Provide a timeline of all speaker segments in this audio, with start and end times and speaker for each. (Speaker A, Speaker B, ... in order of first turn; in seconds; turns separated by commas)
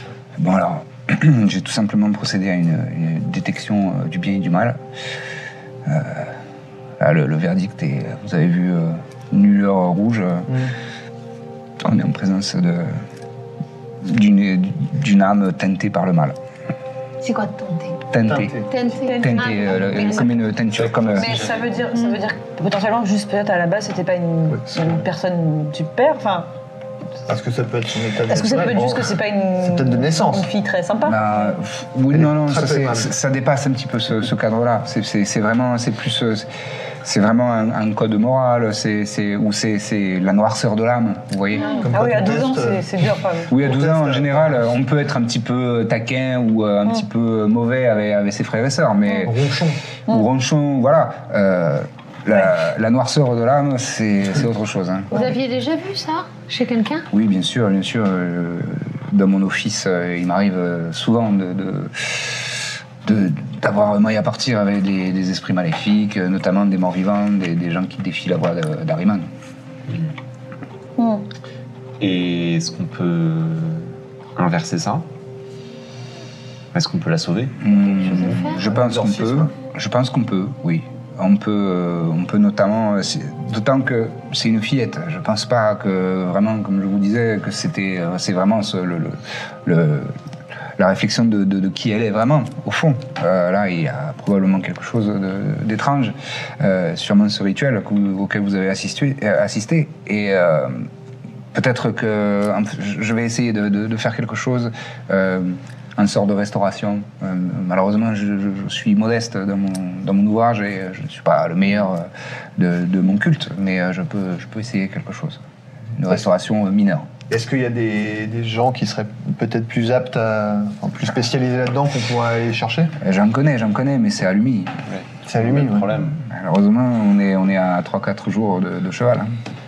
Speaker A: 0.3-4.8, Speaker A: 5.8-6.3, Speaker A: 7.0-10.5, Speaker B: 10.5-10.7, Speaker A: 11.8-13.0, Speaker A: 14.0-16.4, Speaker C: 17.2-18.0, Speaker A: 18.1-18.6, Speaker B: 18.2-18.7, Speaker C: 18.7-20.4, Speaker D: 18.9-19.8, Speaker A: 19.2-21.4, Speaker E: 20.7-21.7, Speaker D: 21.2-26.5, Speaker B: 24.5-25.1, Speaker B: 27.3-30.5, Speaker D: 28.2-31.5, Speaker A: 31.0-36.5, Speaker B: 32.1-33.1, Speaker A: 37.0-41.7, Speaker C: 41.6-41.9, Speaker D: 41.7-43.5, Speaker B: 41.8-44.6, Speaker A: 43.5-49.5, Speaker B: 49.2-49.8, Speaker A: 50.1-55.2, Speaker C: 55.1-57.1, Speaker A: 57.1-69.3, Speaker D: 71.0-71.2, Speaker E: 72.0-75.0, Speaker E: 76.7-78.4, Speaker A: 77.6-90.2, Speaker C: 77.9-78.6, Speaker B: 78.6-79.5, Speaker A: 90.8-100.9, Speaker A: 101.5-115.4, Speaker A: 116.0-117.1, Speaker B: 117.3-122.9, Speaker A: 123.0-124.7, Speaker E: 124.9-126.2, Speaker B: 125.2-125.9, Speaker A: 126.2-129.3